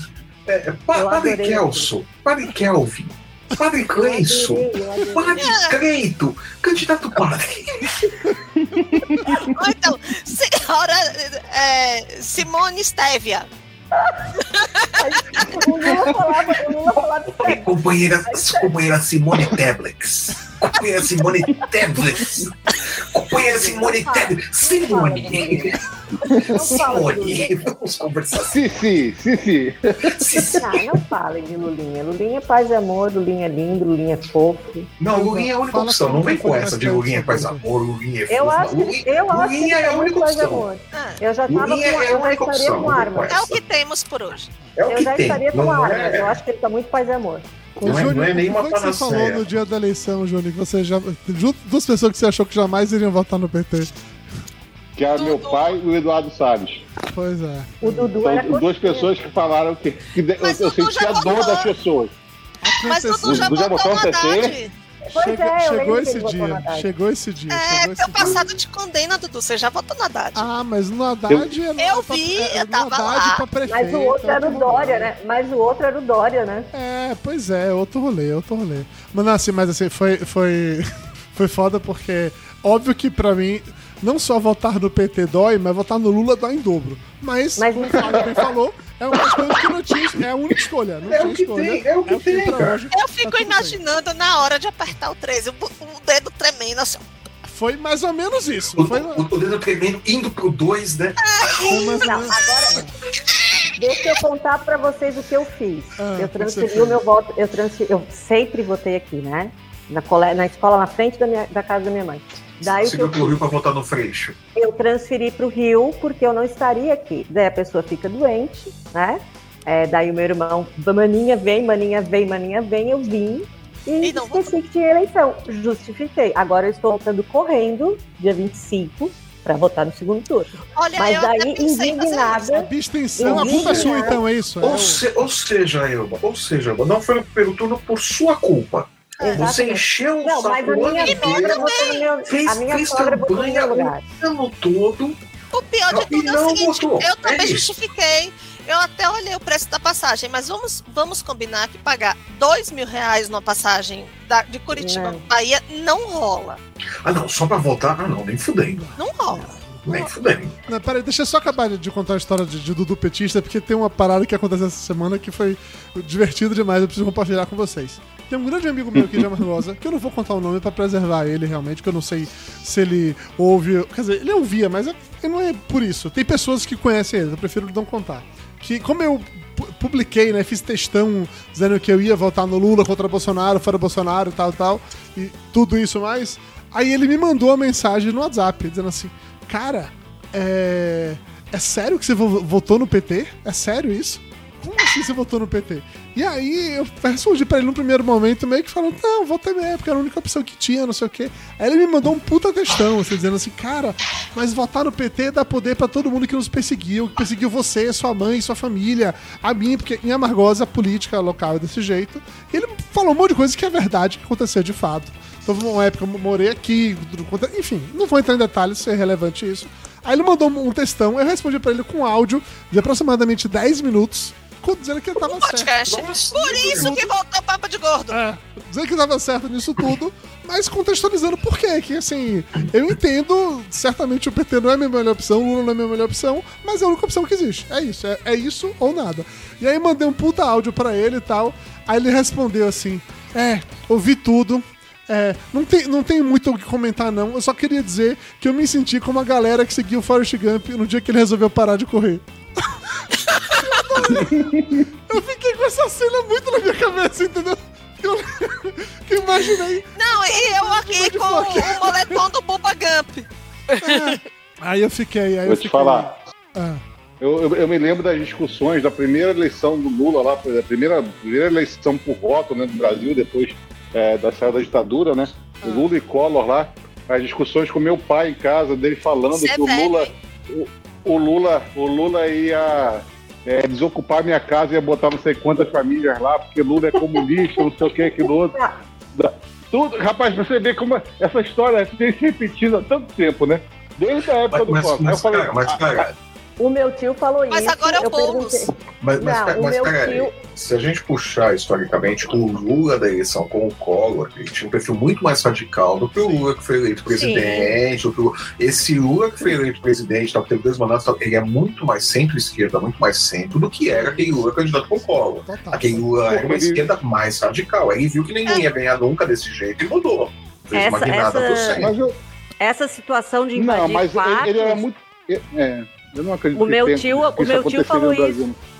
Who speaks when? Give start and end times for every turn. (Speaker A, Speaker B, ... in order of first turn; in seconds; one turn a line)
Speaker A: 0.5-7.9
Speaker B: 0.9-1.9
Speaker B: 4.0-5.5
Speaker C: 5.4-5.8
Speaker D: 8.3-9.3
Speaker E: 8.8-9.4
Speaker C: 9.3-13.5
Speaker B: 14.0-14.4
Speaker C: 14.5-15.5
Speaker B: 14.9-17.7
Speaker A: 17.3-28.6
Speaker B: 18.2-18.7
Speaker B: 23.3-25.8
Speaker E: 26.2-26.7
Speaker B: 26.3-27.6
Speaker E: 28.4-30.6
Speaker A: 30.1-30.9
Speaker B: 30.6-34.9
Speaker A: 35.0-40.7
Speaker D: 35.1-37.6
Speaker B: 38.3-43.3
Speaker C: 40.9-41.2
Speaker A: 41.5-43.6
Speaker C: 43.3-44.5
Speaker A: 44.8-46.4
Speaker B: 44.9-47.5
Speaker D: 47.8-53.9
Speaker A: 47.8-49.5
Speaker E: 55.0-56.8
Speaker C: 55.1-55.8
Speaker D: 57.1-58.1
Speaker B: 57.8-59.1
Speaker E: 58.2-62.1
Speaker C: 60.4-61.7
Speaker D: 62.6-63.6
Speaker C: 62.9-64.7
Speaker E: 63.2-64.6
Speaker B: 65.1-66.9
Speaker D: 65.2-68.5
Speaker C: 67.5-70.5
Speaker D: 70.3-75.1
Speaker C: 71.8-73.4
Speaker B: 73.7-76.7
Speaker D: 76.7-93.8
Speaker B: 87.6-88.4
Speaker A: 91.0-92.8
Speaker C: 92.9-97.0
Speaker D: 97.5-99.3
Speaker A: 98.8-101.9
Speaker C: 101.2-102.5
Speaker D: 101.7-102.9
Speaker B: 102.0-102.9
Speaker B: 103.8-113.4
Speaker D: 106.0-107.0
Speaker A: 112.6-114.4
Speaker B: 114.5-134.2
Speaker C: 124.0-124.5
Speaker C: 130.8-132.5
Speaker D: 132.5-135.0
Speaker A: 133.2-145.2
Speaker C: 139.2-139.5
Speaker B: 139.2-144.0
Speaker C: 141.0-142.1
Speaker C: 145.5-156.6
Speaker A: 145.9-147.7
Speaker B: 154.8-155.2
Speaker A: 157.0-158.8
Speaker D: 158.7-159.9
Speaker C: 159.0-159.5
Speaker A: 159.8-160.6
Speaker D: 160.7-225.7
Speaker C: 225.2-228.2
Speaker A: 225.9-227.0
Speaker D: 226.6-227.1
Speaker D: 228.1-252.2
Speaker D: 253.5-262.2
Speaker E: 254.2-254.8
Speaker C: 260.0-264.2
Speaker D: 263.8-266.8
Speaker E: 265.5-266.2
Speaker E: 267.2-288.6
Speaker D: 275.6-275.9
Speaker C: 279.3-280.1
Speaker B: 288.4-288.8
Speaker E: 289.1-295.9
Speaker A: 294.5-296.1
Speaker B: 296.6-300.4
Speaker C: 297.5-298.7
Speaker A: 299.0-321.9
Speaker C: 307.1-307.8
Speaker D: 313.9-314.5
Speaker D: 315.4-316.1
Speaker E: 316.3-316.9
Speaker B: 320.7-321.8
Speaker E: 321.8-322.2
Speaker B: 322.6-324.8
Speaker E: 323.6-328.6
Speaker B: 326.6-328.4